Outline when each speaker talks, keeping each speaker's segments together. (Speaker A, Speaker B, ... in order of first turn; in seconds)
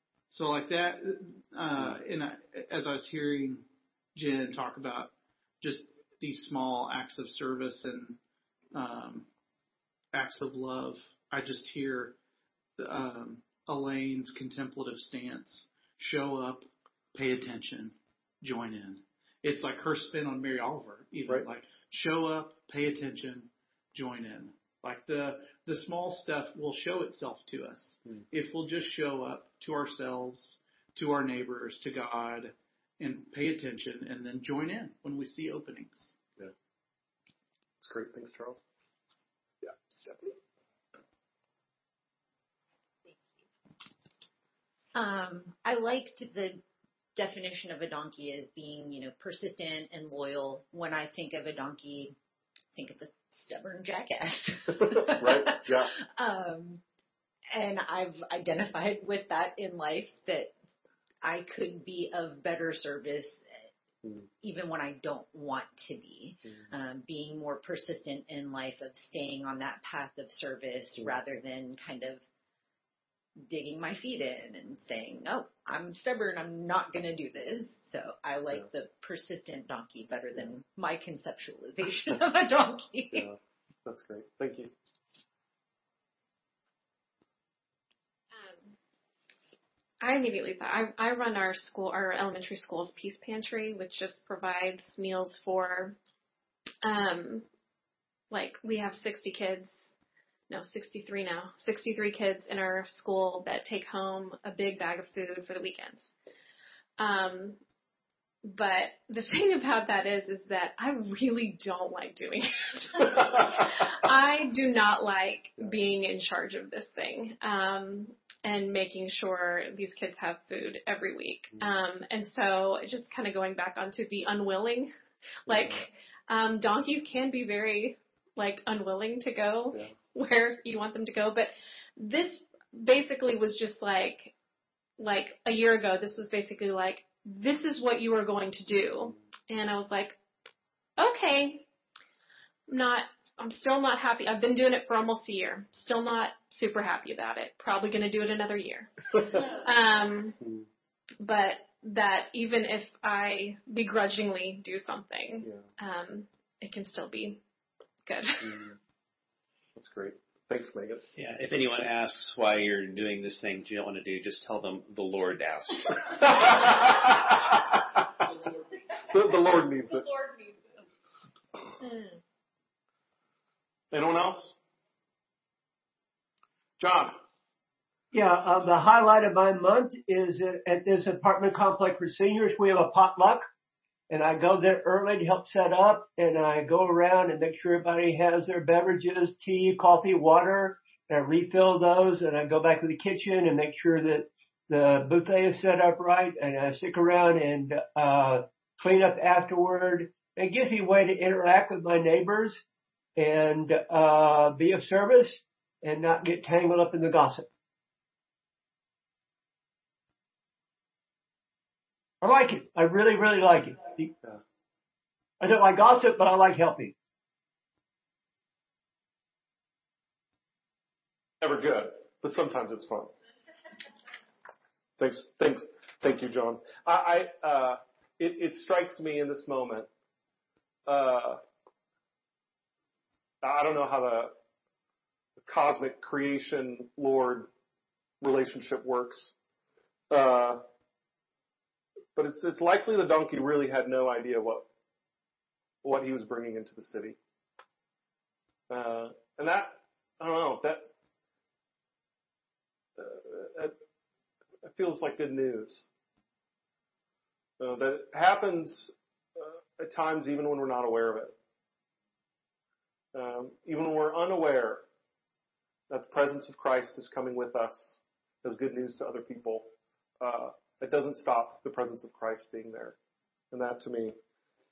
Speaker A: 0.3-8.2, 8.7-9.3, 10.1-12.2, 12.8-36.2
Speaker B: 37.8-38.6, 39.6-40.3, 55.2-55.9, 83.1-84.7, 159.8-161.1, 166.4-167.1, 169.1-170.1, 173.9-174.6, 176.8-177.2, 221.4-223.1, 225.0-229.9, 230.8-231.4, 233.4-234.3, 235.4-237.5, 238.2-239.3, 240.1-240.6, 242.1-244.7, 245.8-247.2, 248.7-250.8, 253.0-253.7, 254.6-255.9, 257.6-261.3, 263.1-264.8, 265.9-269.7, 270.2-272.9, 273.5-274.1
Speaker C: 44.9-46.6, 47.1-52.1, 52.7-56.8, 57.5-60.5, 61.2-63.7, 64.4-72.2, 73.4-83.3
Speaker D: 88.3-88.7, 90.0-96.0, 96.8-97.5, 98.3-99.9, 100.5-106.1, 107.0-107.6, 108.4-124.9, 125.5-134.3, 135.0-140.2, 141.0-141.7, 142.7-150.4, 151.2-157.4, 158.1-158.7
Speaker E: 161.2-166.5
Speaker F: 178.1-183.4, 184.1-202.6, 203.2-207.5, 212.2-214.1, 215.4-216.9